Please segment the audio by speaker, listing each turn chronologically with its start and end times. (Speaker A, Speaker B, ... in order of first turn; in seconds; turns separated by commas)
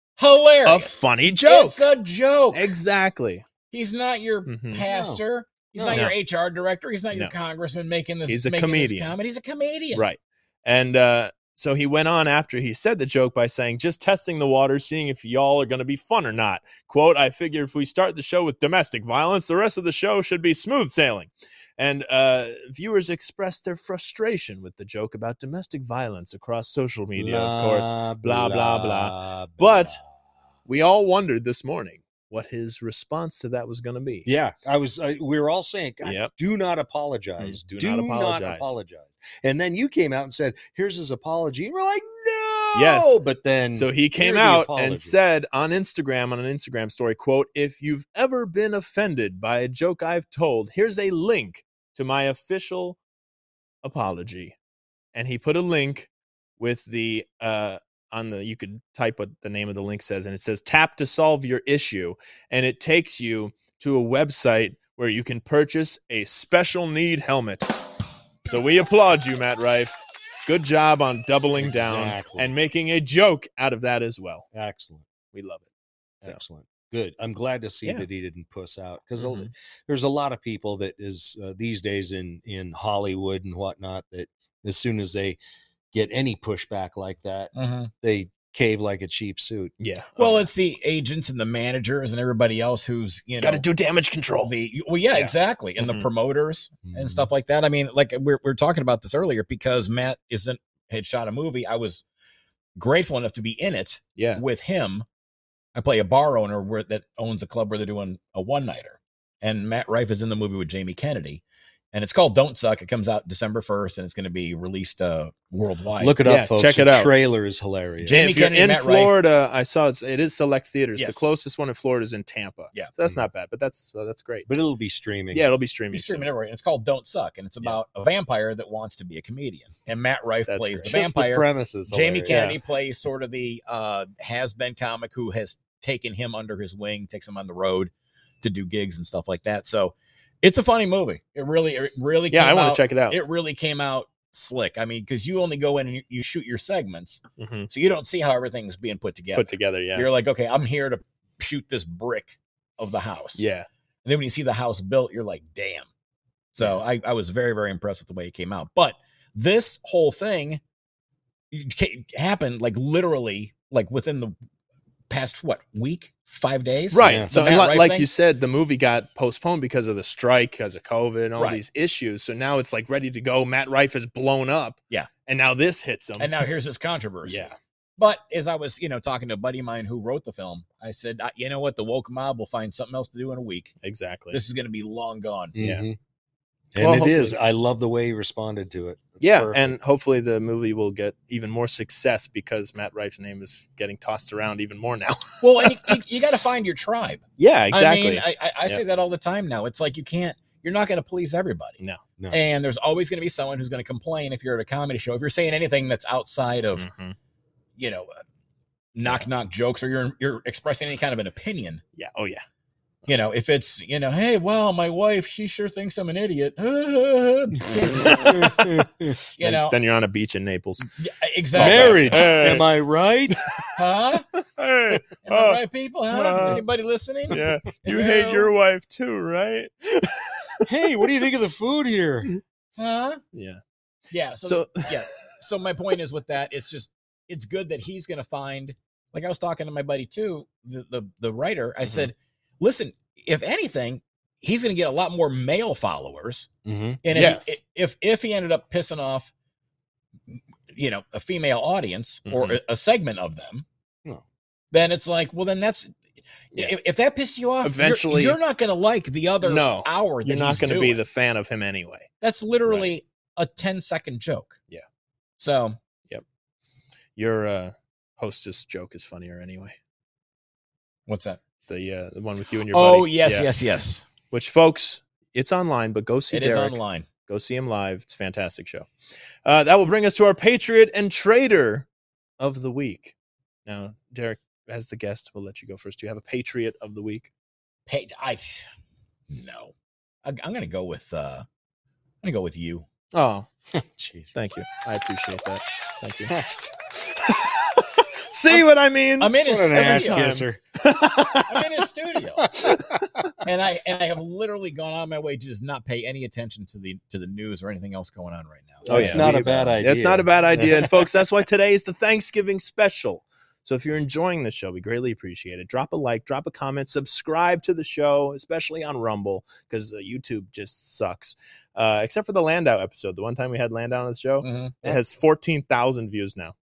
Speaker A: 0.2-2.7, Speaker B: 0.6-1.9, Speaker B: 2.5-3.4, Speaker A: 3.7-10.0, Speaker B: 4.5-4.8, Speaker C: 4.8-5.2, Speaker C: 5.7-6.1, Speaker B: 8.3-9.1, Speaker B: 9.9-30.0, Speaker C: 27.1-30.0, Speaker B: 30.6-34.3, Speaker C: 34.2-45.2, Speaker B: 36.0-36.3, Speaker B: 37.4-38.7, Speaker B: 42.7-43.2, Speaker B: 43.7-53.0, Speaker B: 53.8-54.5, Speaker B: 55.1-67.8, Speaker B: 68.4-74.5, Speaker C: 71.6-72.5, Speaker C: 74.5-75.0, Speaker B: 75.3-75.7, Speaker C: 76.2-85.4, Speaker B: 79.2-79.5, Speaker C: 85.9-89.7, Speaker A: 87.5-87.9, Speaker B: 89.8-90.5, Speaker A: 90.2-93.6, Speaker B: 93.4-94.5, Speaker A: 94.4-102.0, Speaker B: 95.1-96.1, Speaker C: 96.8-97.3, Speaker A: 102.8-105.0, Speaker B: 104.2-104.4, Speaker A: 105.7-111.4, Speaker A: 111.9-116.2, Speaker C: 116.0-118.2, Speaker B: 116.2-117.1, Speaker A: 118.0-119.1, Speaker B: 118.1-124.5, Speaker A: 121.0-121.3, Speaker C: 124.5-125.5, Speaker B: 125.3-126.3, Speaker A: 125.9-137.9, Speaker B: 130.5-130.9, Speaker C: 130.8-132.4, Speaker B: 132.3-132.6, Speaker A: 138.4-153.4, Speaker B: 142.3-143.2, Speaker B: 147.4-147.7, Speaker B: 149.3-150.1, Speaker B: 153.4-153.7, Speaker A: 154.0-155.9, Speaker A: 156.5-160.6, Speaker A: 161.5-164.3, Speaker A: 165.1-168.1, Speaker B: 166.9-176.5, Speaker C: 167.0-167.3, Speaker A: 171.4-171.6, Speaker A: 176.2-183.7, Speaker B: 177.2-177.5, Speaker B: 183.8-184.4, Speaker A: 184.3-185.5, Speaker C: 185.5-186.0, Speaker B: 185.6-185.8, Speaker C: 186.7-189.8, Speaker B: 186.8-187.4, Speaker B: 189.2-196.0, Speaker A: 195.4-201.8, Speaker B: 197.4-198.8, Speaker A: 202.3-206.8, Speaker B: 206.8-207.2, Speaker A: 207.8-208.2, Speaker A: 208.9-211.8, Speaker B: 211.9-212.4, Speaker A: 213.1-218.4, Speaker C: 218.1-219.2, Speaker A: 219.3-219.8, Speaker B: 219.4-220.9, Speaker A: 221.0-222.6, Speaker B: 221.5-222.7, Speaker C: 221.5-223.4, Speaker A: 223.8-224.2, Speaker B: 224.4-226.6, Speaker A: 225.2-228.5, Speaker C: 226.3-226.6, Speaker B: 227.3-230.7, Speaker C: 230.6-232.3, Speaker A: 232.8-233.2, Speaker B: 233.3-233.6, Speaker A: 234.1-246.5, Speaker B: 234.3-234.9, Speaker C: 246.6-247.0, Speaker A: 247.0-249.3, Speaker B: 247.1-247.6, Speaker A: 250.3-253.6, Speaker B: 252.2-252.6, Speaker A: 254.7-255.9, Speaker A: 256.5-261.0, Speaker B: 257.6-258.4, Speaker B: 259.4-262.1, Speaker A: 262.2-264.6, Speaker B: 262.7-262.9, Speaker A: 265.4-265.8, Speaker B: 267.1-269.8, Speaker A: 271.1-271.4, Speaker B: 271.6-273.5, Speaker A: 272.7-274.1, Speaker B: 274.3-278.9, Speaker A: 276.3-277.1, Speaker B: 279.4-281.9, Speaker B: 282.4-283.1, Speaker B: 283.6-287.3, Speaker A: 287.9-288.7, Speaker A: 289.3-289.7, Speaker A: 290.2-291.4, Speaker A: 292.2-292.8, Speaker B: 293.1-293.5, Speaker C: 293.7-294.3, Speaker B: 294.3-296.3, Speaker C: 296.3-296.8, Speaker B: 297.1-301.7, Speaker A: 299.2-300.4, Speaker C: 299.4-300.6, Speaker A: 301.5-302.5, Speaker C: 302.4-302.8, Speaker B: 302.6-302.9, Speaker A: 303.4-309.8, Speaker C: 308.8-311.1, Speaker B: 308.9-326.5, Speaker A: 324.4-324.9